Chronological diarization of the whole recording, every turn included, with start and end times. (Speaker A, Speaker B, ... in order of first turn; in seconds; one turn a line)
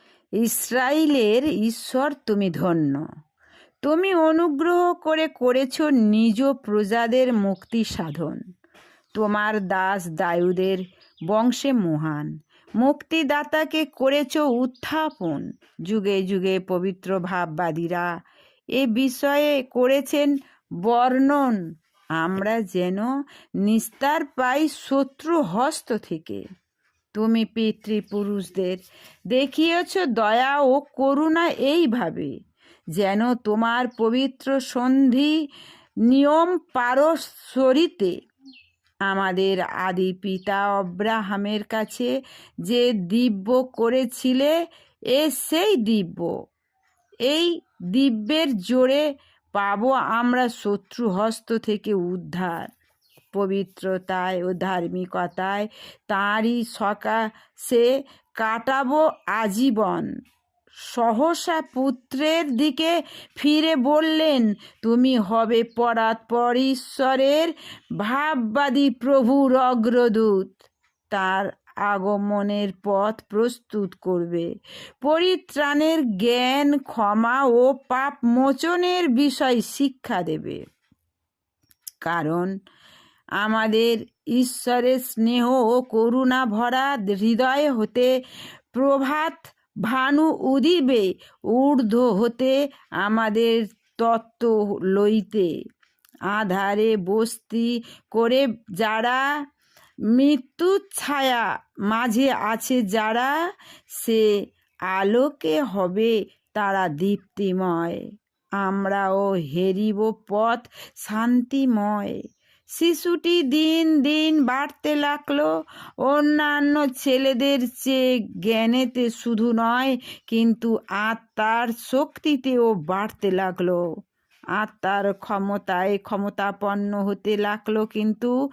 Speaker A: 0.4-3.0
Speaker A: 3.8-8.4
Speaker A: 9.2-18.1
Speaker A: 18.8-21.6
Speaker A: 22.2-23.1
Speaker A: 23.6-26.4
Speaker A: 27.1-32.4
Speaker A: 33.0-35.4
Speaker A: 36.1-38.2
Speaker A: 39.1-42.1
Speaker A: 42.7-44.5
Speaker A: 45.1-46.3
Speaker A: 47.3-49.0
Speaker A: 49.5-52.7
Speaker A: 53.3-60.1
Speaker A: 60.9-74.5
Speaker A: 75.0-80.6
Speaker A: 82.0-82.5
Speaker A: 83.4-88.1
Speaker A: 88.7-95.5
Speaker A: 96.3-99.3
Speaker A: 100.1-103.3
Speaker A: 104.0-104.3
Speaker A: 104.9-108.0
Speaker A: 108.6-112.2
Speaker A: 112.8-115.5
Speaker A: 116.0-123.8
Speaker A: 124.6-128.3